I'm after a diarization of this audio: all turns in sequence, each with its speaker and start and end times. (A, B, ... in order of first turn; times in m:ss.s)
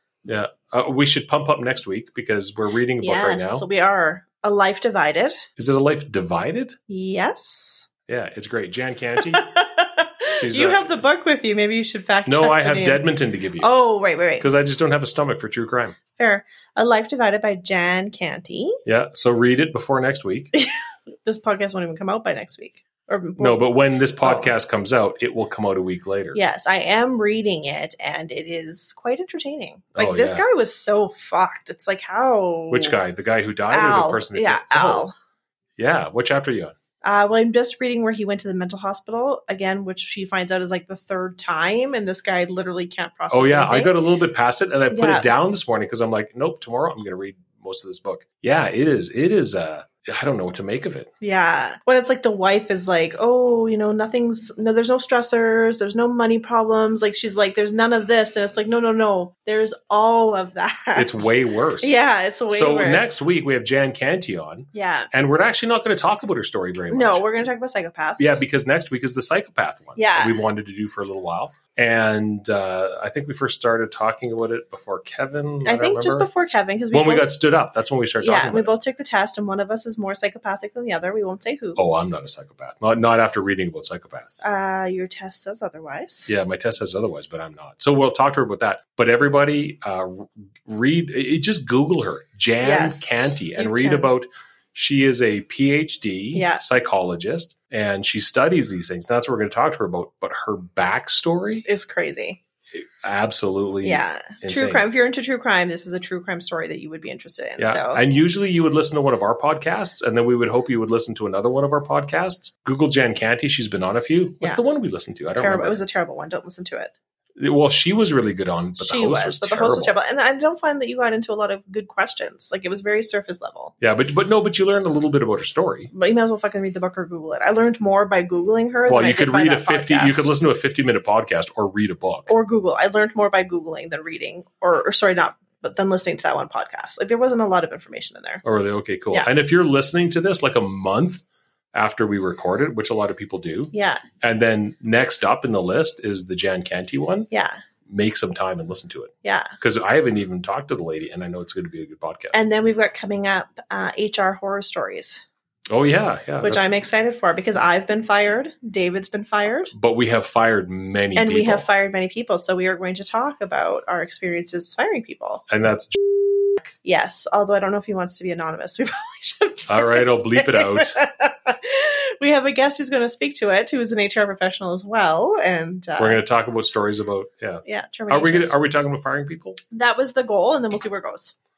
0:00.2-0:03.7 A
0:03.0-0:05.4 B
0:05.6-0:06.8 A
0:06.9-0:07.9 B
0:08.1-0:09.5 A
0:09.3-0:13.1 B
0:10.3-0:11.0 A
0:12.3-0:13.7 A
0:13.6-0:14.5 B
0:14.4-0:16.0 A
0:16.2-0:18.8 B
0:18.9-0:20.5 A
0:21.2-0:23.6 B
0:23.4-0:26.4 A
0:24.2-0:24.5 B
0:26.4-0:33.0 B
0:30.0-0:30.4 A
0:32.7-0:35.1 A
0:33.7-0:35.1 B
0:35.8-0:36.8 A
0:37.0-0:44.0 B
0:43.3-0:51.1 A
0:44.9-0:45.3 B
0:51.2-1:01.3 B
1:01.0-1:02.0 A
1:01.8-1:03.2 B
1:02.5-1:07.3 A
1:04.7-1:05.1 B
1:06.9-1:08.4 B
1:08.2-1:16.3 A
1:10.0-1:10.4 B
1:15.6-1:17.4 B
1:16.9-1:18.7 A
1:18.2-1:21.8 B
1:21.8-1:24.4 A
1:24.4-1:26.3 B
1:26.3-1:41.7 A
1:32.6-1:34.1 B
1:36.3-1:36.6 B
1:41.7-1:42.4 B
1:42.7-1:44.8 A
1:43.8-1:48.0 B
1:47.6-1:55.8 A
1:55.4-1:56.9 B
1:57.4-2:00.0 A
1:58.8-2:03.7 B
2:03.8-2:05.9 A
2:05.9-2:10.3 B
2:08.9-2:12.3 A
2:12.3-2:18.4 B
2:18.4-2:27.3 A
2:23.7-2:24.0 B
2:27.3-2:27.6 B
2:27.9-2:32.4 A
2:29.2-2:29.5 B
2:32.3-2:35.2 B
2:35.7-2:36.7 A
2:36.4-2:39.7 B
2:39.7-2:41.6 A
2:41.2-2:45.4 B
2:45.5-2:46.7 A
2:46.8-2:56.2 B
2:49.7-2:51.0 A
2:56.0-2:59.6 A
2:57.7-2:58.6 B
2:59.7-3:01.3 B